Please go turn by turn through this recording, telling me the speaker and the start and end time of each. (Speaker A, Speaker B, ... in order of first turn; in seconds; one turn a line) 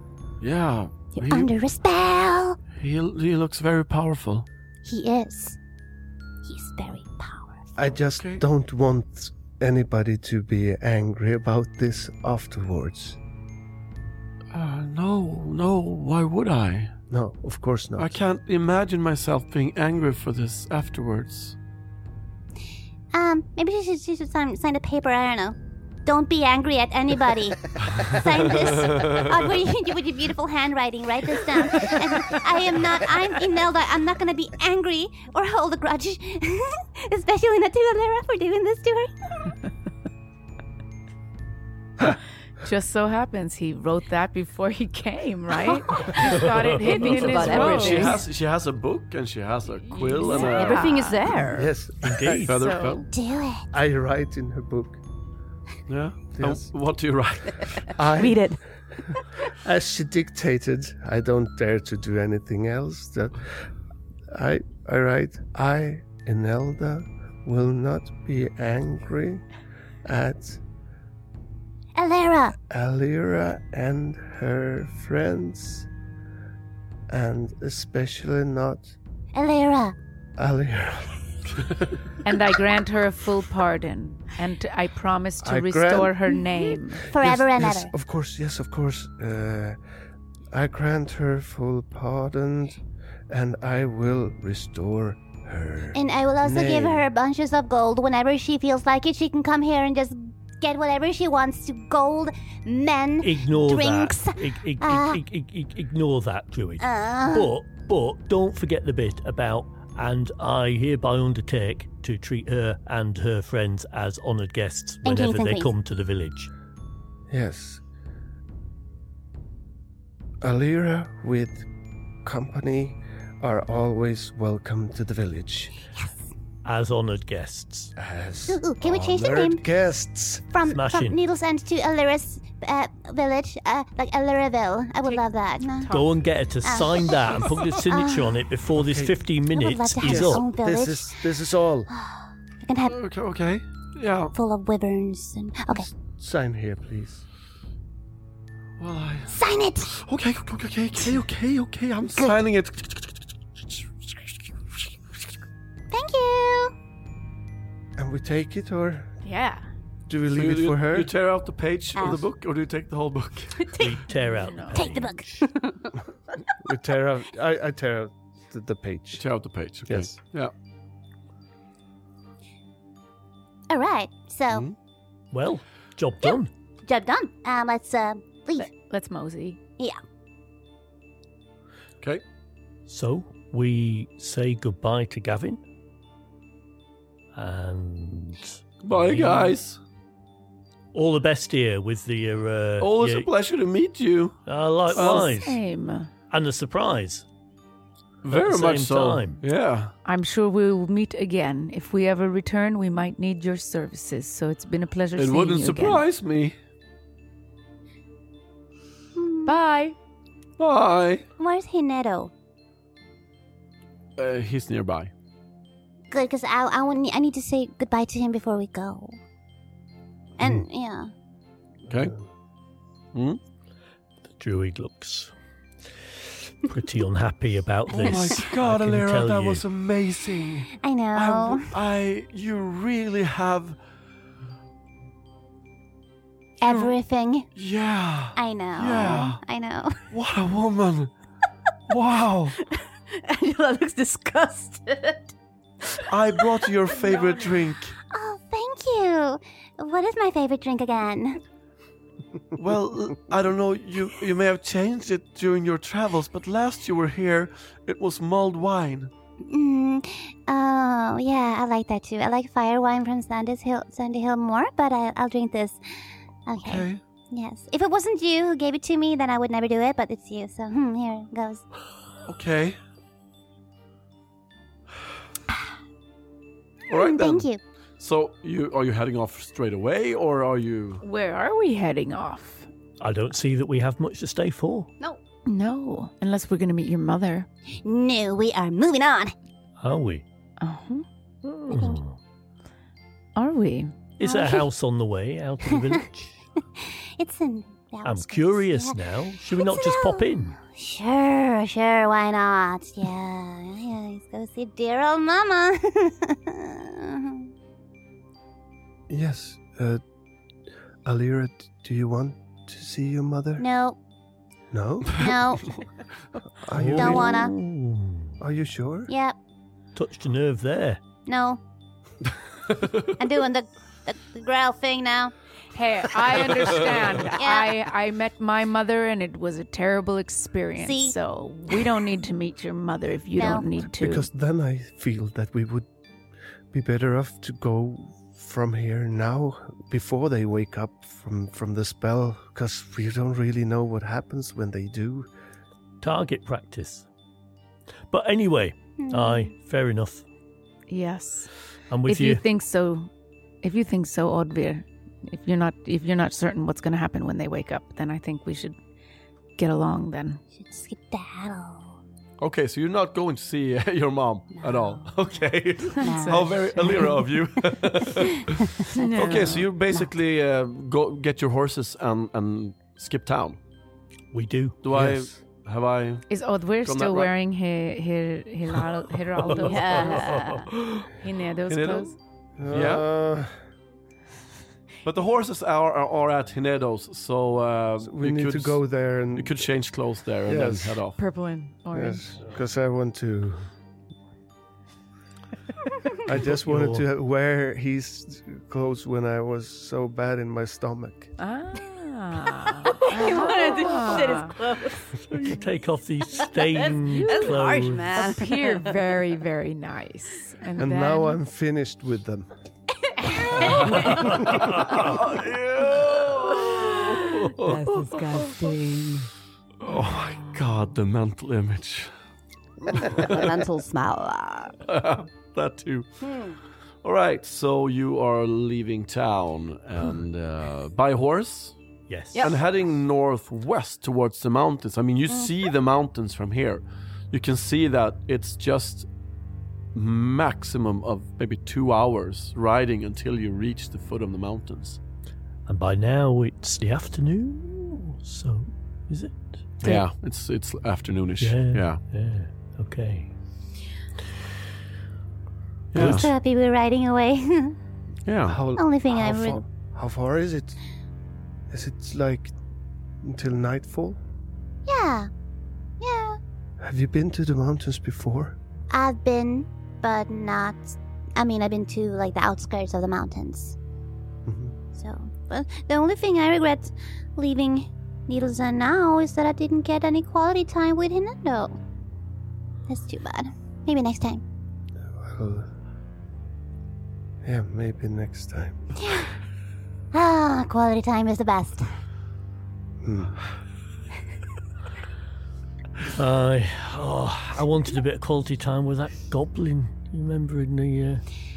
Speaker A: 0.4-1.5
Speaker B: 1.1-2.6
Speaker A: 2.8-4.5
Speaker B: 4.8-5.6
Speaker B: 6.4-7.7
Speaker C: 7.8-13.2
Speaker A: 8.2-8.4
Speaker A: 14.5-16.9
Speaker C: 17.1-18.2
Speaker A: 18.0-21.6
Speaker B: 23.1-39.1
Speaker A: 27.8-29.3
Speaker D: 42.6-48.2
Speaker E: 46.8-48.2
Speaker A: 47.0-51.0
Speaker D: 49.9-51.3
Speaker E: 50.2-51.7
Speaker C: 51.5-52.4
Speaker F: 52.0-52.6
Speaker A: 52.3-53.0
Speaker D: 52.5-53.0
Speaker B: 53.0-53.7
Speaker C: 53.7-55.0
Speaker A: 55.9-58.1
Speaker C: 56.3-56.7
Speaker C: 57.9-58.5
Speaker E: 58.0-59.2
Speaker C: 59.5-63.6
Speaker C: 64.3-69.4
Speaker C: 70.0-70.6
Speaker B: 72.0-72.5
Speaker C: 72.7-75.9
Speaker C: 77.1-78.9
Speaker B: 79.3-79.9
Speaker C: 80.4-81.6
Speaker D: 82.2-87.1
Speaker C: 85.4-86.2
Speaker B: 87.0-87.9
Speaker C: 87.1-89.8
Speaker C: 90.5-97.0
Speaker B: 95.9-105.2
Speaker F: 103.2-116.5
Speaker B: 106.8-107.5
Speaker B: 115.0-115.7
Speaker C: 117.3-117.8
Speaker C: 120.4-121.7
Speaker C: 122.2-125.7
Speaker F: 126.6-127.9
Speaker C: 128.0-130.5
Speaker B: 128.5-129.6
Speaker B: 130.5-135.9
Speaker F: 130.7-131.2
Speaker D: 135.0-136.2
Speaker F: 135.9-140.4
Speaker B: 136.6-138.5
Speaker C: 138.7-139.2
Speaker B: 139.5-141.2
Speaker C: 140.0-141.9
Speaker B: 141.9-143.0
Speaker A: 142.9-144.3
Speaker B: 144.3-145.9
Speaker C: 145.7-147.2
Speaker A: 148.8-149.3
Speaker B: 149.3-149.9
Speaker A: 149.9-153.3
Speaker B: 155.9-156.7
Speaker C: 158.0-159.1
Speaker D: 159.2-159.6
Speaker C: 160.1-161.1
Speaker A: 160.3-163.8
Speaker B: 161.9-162.2
Speaker F: 163.8-165.4
Speaker D: 164.2-165.0
Speaker B: 164.7-165.7
Speaker C: 166.6-169.2
Speaker A: 169.2-170.5
Speaker B: 173.7-174.6
Speaker A: 174.5-174.7
Speaker F: 175.3-176.5
Speaker B: 176.2-178.7
Speaker D: 178.6-179.6
Speaker F: 182.9-185.6
Speaker F: 187.3-189.6
Speaker A: 188.8-189.8
Speaker F: 190.9-193.3
Speaker A: 192.8-194.4
Speaker F: 194.4-195.6
Speaker D: 194.9-196.1
Speaker A: 194.9-195.3
Speaker F: 196.3-197.2
Speaker A: 198.2-199.9
Speaker F: 198.3-199.4
Speaker D: 200.0-206.0
Speaker A: 205.2-206.6
Speaker B: 209.1-209.6
Speaker D: 209.4-209.9
Speaker A: 210.6-211.2
Speaker B: 211.4-212.3
Speaker A: 214.2-215.1
Speaker B: 216.1-219.2
Speaker B: 220.4-221.1
Speaker A: 221.9-222.1
Speaker A: 223.1-223.4
Speaker F: 224.3-225.3
Speaker F: 226.6-229.6
Speaker A: 227.9-233.8
Speaker B: 230.8-231.7
Speaker B: 236.6-237.5
Speaker A: 236.6-236.9
Speaker A: 237.5-239.4
Speaker B: 238.3-240.0
Speaker A: 240.1-241.1
Speaker A: 241.9-242.6
Speaker E: 242.7-245.3
Speaker E: 245.9-246.7
Speaker A: 246.0-247.9
Speaker D: 247.0-247.6
Speaker B: 248.1-251.4
Speaker A: 252.6-259.1
Speaker B: 259.4-265.8
Speaker B: 266.5-271.6
Speaker A: 266.6-267.0
Speaker A: 272.3-272.8
Speaker A: 276.9-277.5
Speaker B: 276.9-277.6
Speaker A: 278.0-281.0
Speaker D: 281.0-282.7
Speaker F: 283.0-284.9
Speaker D: 285.4-287.5
Speaker B: 287.8-289.3
Speaker F: 289.8-290.2
Speaker D: 290.6-291.0
Speaker F: 291.4-292.2
Speaker B: 291.7-292.0
Speaker D: 293.4-294.1
Speaker F: 294.2-296.3
Speaker B: 294.2-294.6
Speaker B: 295.7-296.0
Speaker B: 296.8-307.5
Speaker F: 298.0-300.6
Speaker C: 309.1-310.0
Speaker C: 311.0-313.6
Speaker B: 313.6-314.0
Speaker C: 314.7-315.3
Speaker B: 315.1-315.8
Speaker A: 315.3-315.8
Speaker C: 316.6-317.3
Speaker F: 316.7-318.3
Speaker B: 316.9-317.5
Speaker C: 318.4-319.1
Speaker B: 319.1-319.4
Speaker F: 319.9-321.0
Speaker B: 321.2-321.6
Speaker A: 322.7-323.1
Speaker B: 323.1-325.3
Speaker D: 325.7-334.3
Speaker B: 327.3-327.8
Speaker B: 330.8-331.1
Speaker B: 333.4-333.7
Speaker C: 333.9-335.9
Speaker C: 336.7-345.3
Speaker F: 346.0-347.1
Speaker F: 348.1-350.2
Speaker B: 349.0-349.5
Speaker D: 350.9-351.5
Speaker F: 351.9-352.4
Speaker D: 352.1-353.1
Speaker D: 353.6-358.8
Speaker D: 359.6-360.4
Speaker B: 360.5-362.0
Speaker A: 362.4-373.6
Speaker B: 364.5-365.1
Speaker D: 365.9-367.3
Speaker B: 366.0-367.1
Speaker B: 368.4-369.0
Speaker D: 368.9-369.7
Speaker F: 374.3-374.8
Speaker A: 374.8-376.3
Speaker C: 374.9-375.3
Speaker D: 376.3-380.4
Speaker A: 376.8-377.3
Speaker E: 379.6-380.7
Speaker A: 380.7-381.1
Speaker D: 381.2-382.2
Speaker A: 381.7-382.1
Speaker C: 382.6-383.5
Speaker A: 382.7-383.0
Speaker A: 385.0-388.8
Speaker C: 388.0-389.6
Speaker A: 389.3-391.2
Speaker C: 390.4-391.0
Speaker D: 391.2-392.4
Speaker C: 391.9-393.7
Speaker C: 396.2-401.3
Speaker F: 396.5-397.0
Speaker D: 401.4-404.6
Speaker E: 402.8-405.2
Speaker F: 405.2-408.2
Speaker E: 406.4-409.0
Speaker D: 407.1-411.4
Speaker C: 410.8-412.5
Speaker D: 413.2-414.4
Speaker A: 413.6-418.6
Speaker F: 414.5-415.1
Speaker E: 417.3-419.3
Speaker A: 419.8-422.1
Speaker E: 422.8-424.8
Speaker A: 423.0-423.5
Speaker A: 424.8-426.2
Speaker E: 426.2-426.5
Speaker A: 427.0-431.7
Speaker F: 432.1-432.4
Speaker E: 432.3-432.6
Speaker A: 432.4-439.1
Speaker A: 439.9-445.0
Speaker F: 445.6-450.0
Speaker A: 449.8-452.0
Speaker F: 451.4-453.3
Speaker A: 455.9-456.3
Speaker B: 455.9-457.8
Speaker F: 455.9-456.3
Speaker A: 458.2-458.6
Speaker C: 458.5-460.8
Speaker B: 458.8-459.6
Speaker C: 461.7-462.5
Speaker C: 463.2-464.2
Speaker B: 464.9-465.3
Speaker B: 466.0-466.4
Speaker C: 466.8-468.6
Speaker B: 468.9-473.8
Speaker C: 474.4-474.8
Speaker B: 474.9-481.8
Speaker B: 482.9-484.4
Speaker C: 485.1-485.7
Speaker C: 487.4-488.9
Speaker B: 489.0-489.3
Speaker B: 490.1-491.9
Speaker C: 493.0-493.4
Speaker F: 496.1-501.2